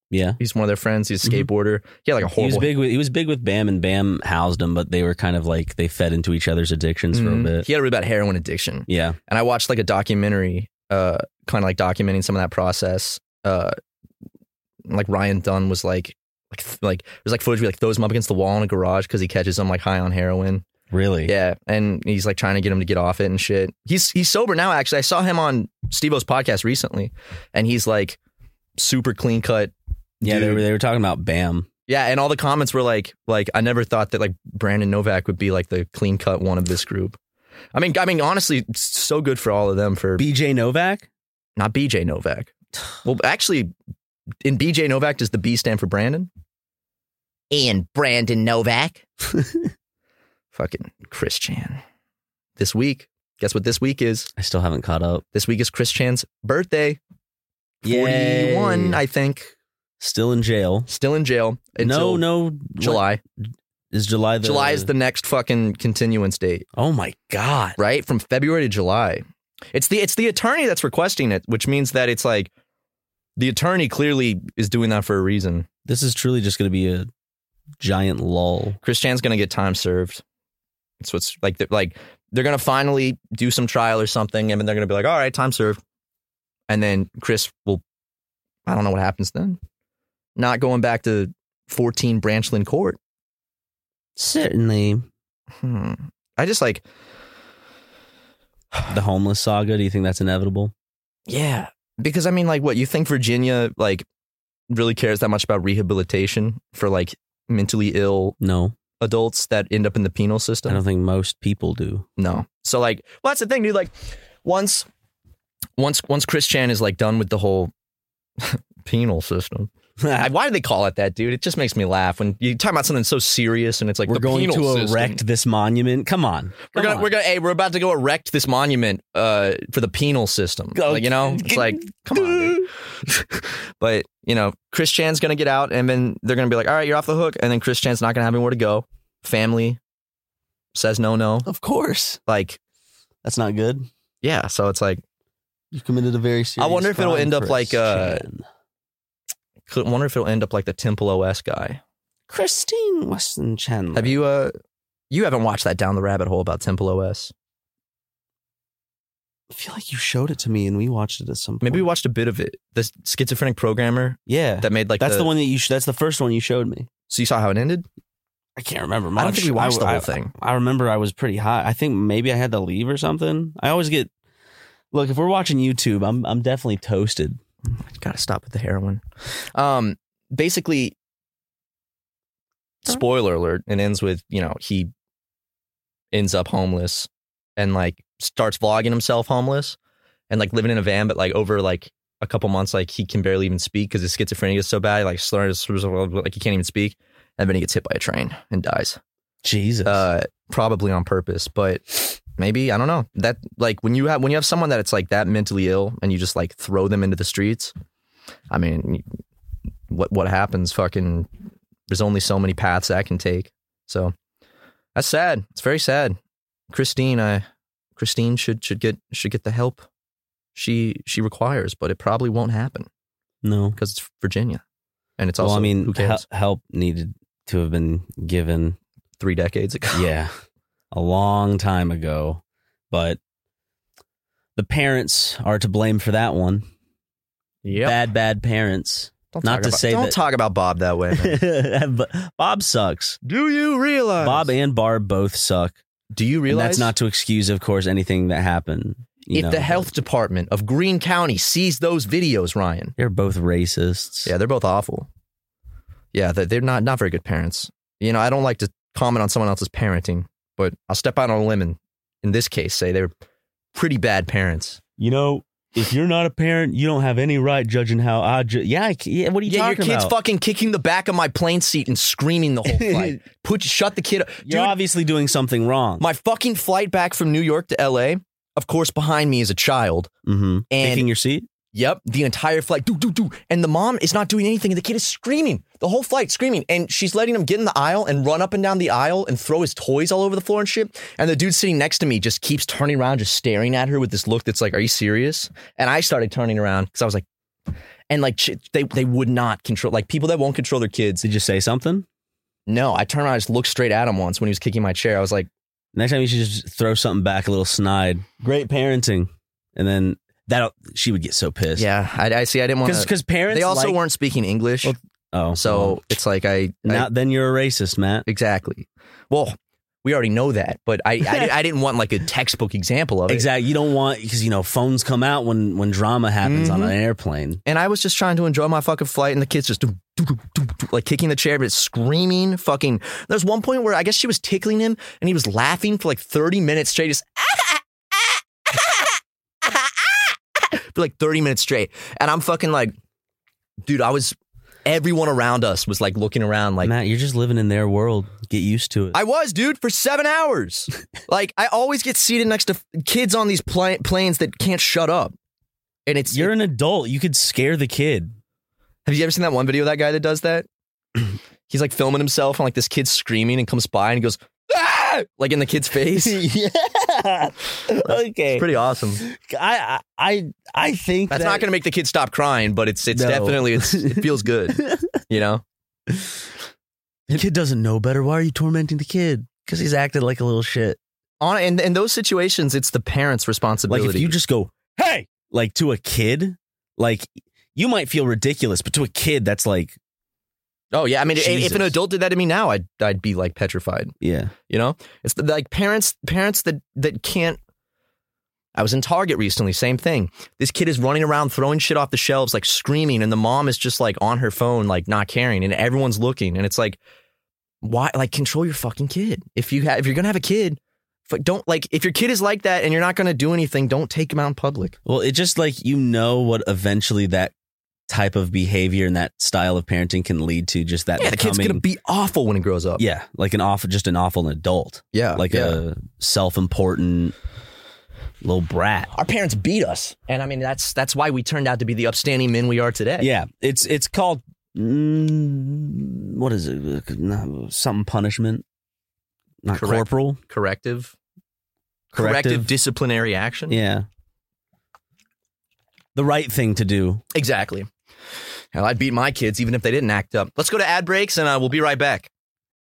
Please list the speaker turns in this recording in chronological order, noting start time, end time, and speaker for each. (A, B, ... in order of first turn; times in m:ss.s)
0:00.1-0:00.4 A
0:00.4-0:02.7 B
0:01.2-0:01.5 A
0:02.3-0:07.7 A
0:07.1-0:13.7 B
0:08.9-0:09.2 A
0:14.9-0:20.6 B
0:20.9-0:21.3 A
0:21.2-0:28.2 B
0:28.8-0:30.6 B
0:30.2-0:31.7 A
0:31.9-0:37.2 B
0:37.7-0:40.2 B
0:40.2-0:41.1 A
0:41.6-0:43.7 B
0:44.4-0:46.3 B
0:47.5-0:49.0 B
0:49.3-0:49.7 A
0:50.5-0:51.8 B
0:52.6-0:54.3 B
0:54.4-0:55.2 A
0:55.3-0:57.0 B
0:57.8-0:59.0 A
0:57.8-0:59.5 B
1:00.0-1:00.9 A
1:00.9-1:02.2 B
1:01.8-1:03.0 A
1:02.8-1:03.2 B
1:03.9-1:04.9 A
1:04.4-1:06.6 B
1:06.8-1:07.8 A
1:07.8-1:12.5 B
1:13.4-1:15.7 B
1:15.8-1:17.1 A
1:17.8-1:18.8 A
1:18.8-1:20.2 B
1:21.0-1:25.8 B
1:26.7-1:27.8 B
1:28.6-1:29.6 B
1:30.4-1:33.0 B
1:34.2-1:35.1 A
1:35.6-1:36.8 B
1:38.9-1:40.7 A
1:41.3-1:44.0 B
1:44.7-1:48.4 B
1:48.4-1:48.7 A
1:49.0-1:50.8 B
1:50.7-1:52.0 A
1:52.2-1:54.9 B
1:55.8-1:57.7 B
1:58.4-2:05.2 B
2:00.0-2:00.3 A
2:04.1-2:07.1 A
2:06.7-2:19.8 B
2:10.7-2:12.7 A
2:20.7-2:21.5 B
2:21.4-2:22.2 A
2:22.3-2:22.6 B
2:23.2-2:23.9 A
2:24.2-2:25.0 B
2:25.7-2:28.4 A
2:26.6-2:28.2 B
2:29.7-2:31.8 B
2:32.3-2:34.2 A
2:33.9-2:34.5 B
2:35.1-2:37.3 B
2:39.5-2:41.8 A
2:41.6-2:45.3 B
2:44.3-2:46.9 A
2:47.1-2:47.8 B
2:48.6-2:54.1 A
2:49.2-2:50.3 B
2:54.9-2:57.4 A
2:57.9-2:59.0 B
2:59.5-3:00.9 B
3:02.8-3:04.9 B
3:06.1-3:09.8 B
3:10.3-3:19.0 B
3:19.4-3:20.0 A
3:19.8-3:27.7 B
3:28.5-3:29.0 B
3:29.9-3:31.3 B
3:31.9-3:34.1 B
3:34.9-3:36.2 B
3:36.7-3:37.4 B
3:38.0-3:39.8 B
3:40.5-3:42.9 B
3:43.4-3:43.8 A
3:43.8-3:44.6 B
3:45.2-3:46.2 B
3:45.4-3:48.8 A
3:49.2-3:50.1 B
3:49.9-3:50.3 A
3:50.9-3:53.2 A
3:54.6-3:56.6 A
3:57.6-3:58.0 B
3:57.8-4:00.2 A
3:59.3-4:01.4 B
4:01.1-4:03.2 A
4:03.2-4:04.5 B
4:04.2-4:05.8 A
4:06.1-4:06.9 B
4:06.5-4:09.9 A
4:09.3-4:12.9 B
4:13.0-4:14.3 A
4:14.2-4:15.1 B
4:16.1-4:23.1 B
4:23.7-4:24.8 B
4:25.0-4:30.1 A
4:29.4-4:34.8 B
4:32.7-4:33.2 A
4:34.4-4:36.0 A
4:36.0-4:40.1 B
4:40.2-4:41.5 A
4:40.7-4:41.1 B
4:41.7-4:57.2 B
4:58.1-5:01.2 B
5:01.2-5:02.0 A
5:02.7-5:05.5 B
5:05.9-5:11.9 A
5:11.8-5:14.9 B
5:12.8-5:14.0 A
5:14.8-5:16.0 A
5:15.5-5:17.1 B
5:16.8-5:18.3 A
5:18.2-5:23.5 B
5:23.3-5:27.6 A
5:26.4-5:26.9 B
5:27.6-5:42.9 B
5:43.8-5:46.9 B
5:46.8-5:49.2 A
5:49.1-5:55.3 B
5:56.0-5:56.5 B
5:56.3-5:58.3 A
5:59.0-6:00.7 B
6:01.7-6:06.4 B
6:06.1-6:11.6 A
6:08.0-6:09.2 B
6:11.3-6:15.6 B
6:13.1-6:15.2 A
6:16.1-6:16.4 A
6:17.3-6:21.0 A
6:21.4-6:24.4 B
6:23.9-6:30.0 A
6:30.9-6:34.1 B
6:31.3-6:31.9 A
6:34.2-6:34.5 A
6:34.7-6:37.6 B
6:38.7-6:47.0 B
6:47.8-6:54.9 B
6:55.0-6:57.5 A
6:58.1-7:01.8 A
7:01.2-7:03.0 B
7:03.0-7:07.3 A
7:05.1-7:05.8 B
7:08.4-7:09.1 A
7:09.1-7:13.3 B
7:13.2-7:18.6 A
7:19.6-7:20.4 A
7:19.7-7:21.1 B
7:22.1-7:22.7 A
7:22.1-7:23.8 B
7:23.7-7:24.0 A
7:26.1-7:27.2 A
7:27.3-7:27.9 B
7:28.7-7:32.3 B